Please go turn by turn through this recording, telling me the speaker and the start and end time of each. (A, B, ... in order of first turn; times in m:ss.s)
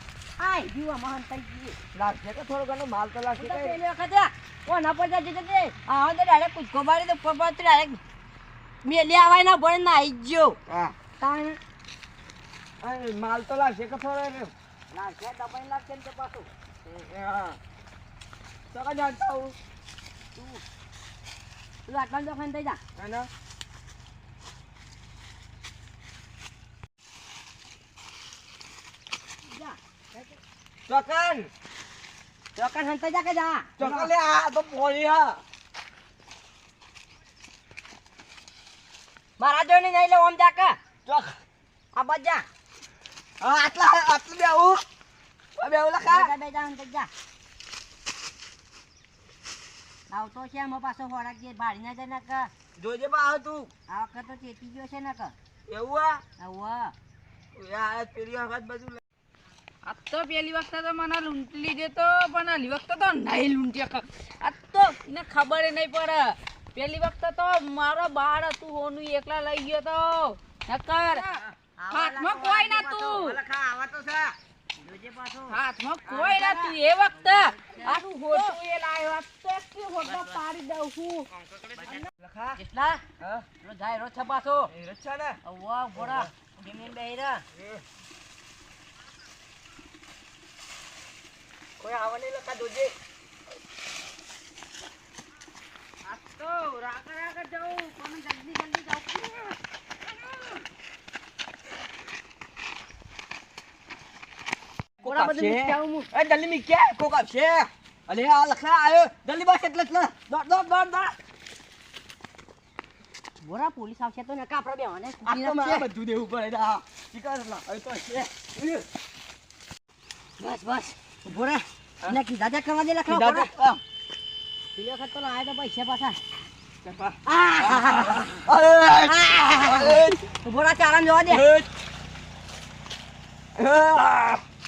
0:00.4-0:01.8 A
0:01.9-0:03.8 B
0:03.4-0:08.0 A
0:08.8-0:10.6 A
0:10.7-0:11.0 B
0:11.2-0:11.6 A
0:12.8-0:14.5 B
0:14.9-0:16.5 A
0:16.8-0:17.6 B
0:18.7-0:19.6 B
0:20.4-0:20.6 A
0:21.9-0:22.8 A
0:23.0-0:23.3 B
0:29.4-0:30.4 A
0:30.9-0:31.5 B
0:32.6-0:34.0 A
0:33.8-0:35.4 B
0:39.4-0:40.8 A
0:41.1-0:41.4 B
0:41.9-0:42.5 A
0:43.4-0:44.8 B
0:45.6-0:46.3 B
0:46.0-0:47.1 A
0:50.1-0:52.5 A
0:52.8-0:53.7 B
0:53.9-0:55.3 A
0:55.7-0:56.2 B
0:56.4-0:56.9 A
0:57.5-0:59.0 B
0:59.8-1:11.3 C
1:11.8-1:13.4 A
1:11.9-1:13.4 C
1:13.4-1:14.4 B
1:14.8-1:16.8 A
1:15.5-1:21.3 C
1:17.7-1:18.6 A
1:20.1-1:20.4 A
1:21.4-1:22.6 B
1:22.6-1:23.0 A
1:23.2-1:23.5 B
1:23.6-1:24.7 A
1:24.7-1:25.4 B
1:25.4-1:27.4 A
1:26.0-1:26.3 B
1:27.6-1:27.8 B
1:31.8-1:33.0 B
1:36.1-1:39.2 C
1:37.0-1:38.8 A
1:45.0-1:51.2 B
1:45.0-1:46.1 A
1:53.4-1:55.9 A
1:55.2-1:58.9 B
2:00.4-2:03.5 A
2:03.1-2:03.8 B
2:04.8-2:06.2 A
2:06.8-2:10.3 B
2:07.3-2:08.4 A
2:09.0-2:11.5 A
2:11.3-2:11.7 B
2:13.6-2:14.4 B